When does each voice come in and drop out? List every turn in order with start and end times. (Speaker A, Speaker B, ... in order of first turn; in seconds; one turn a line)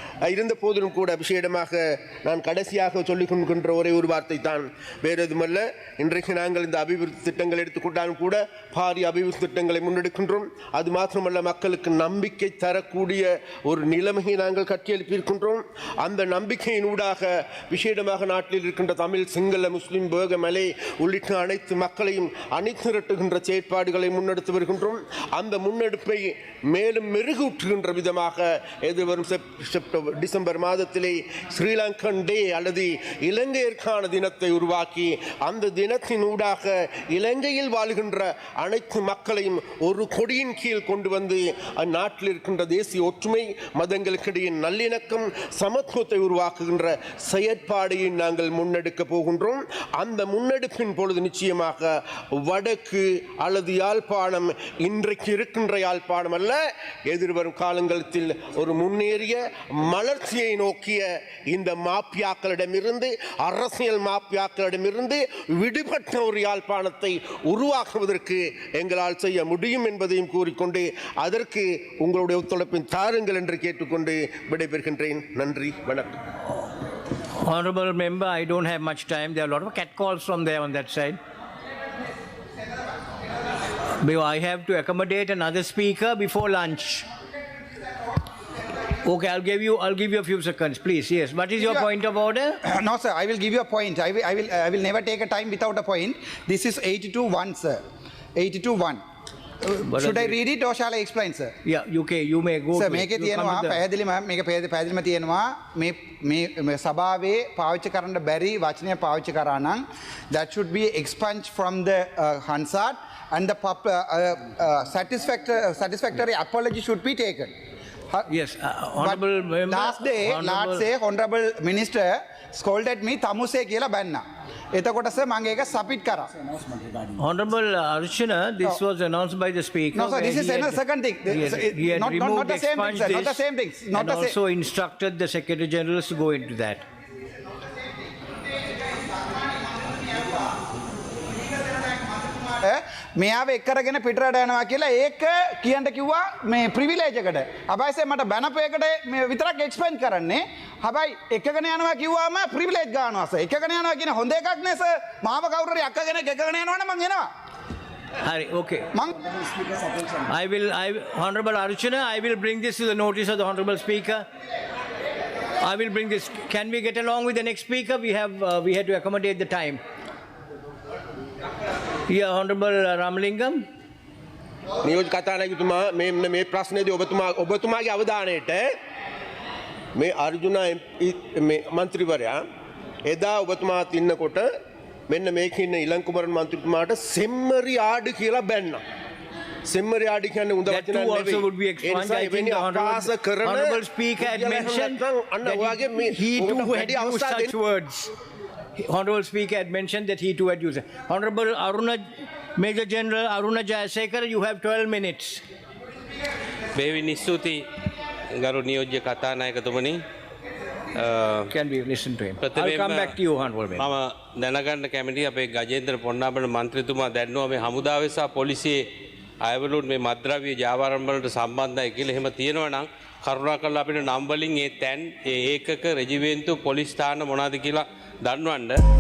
Speaker A: 0.2-76.2
Speaker B: 77.4-81.2
Speaker B: 84.0-87.1
Speaker B: 89.0-92.6
Speaker C: 91.6-91.9
Speaker C: 92.7-97.8
Speaker C: 98.4-99.0
Speaker C: 99.6-101.5
Speaker B: 99.8-100.4
Speaker B: 101.7-103.8
Speaker C: 102.8-117.5
Speaker B: 118.3-120.9
Speaker C: 119.0-124.2
Speaker C: 124.7-126.3
Speaker B: 127.2-136.8
Speaker C: 129.9-134.4
Speaker C: 139.3-140.5
Speaker C: 141.7-157.3
Speaker B: 158.2-158.9
Speaker C: 158.9-159.2
Speaker B: 160.2-164.3
Speaker B: 165.6-169.8
Speaker B: 172.1-173.6
Speaker A: 174.8-178.7
Speaker A: 179.9-182.4
Speaker A: 183.1-184.5
Speaker A: 185.1-188.8
Speaker A: 189.7-197.6
Speaker B: 190.7-198.1
Speaker B: 198.8-202.0
Speaker B: 202.6-205.4
Speaker D: 206.8-207.7
Speaker D: 208.3-210.0
Speaker D: 210.9-211.5
Speaker B: 211.5-213.9
Speaker D: 212.4-213.2
Speaker D: 213.8-218.8
Speaker D: 219.4-228.8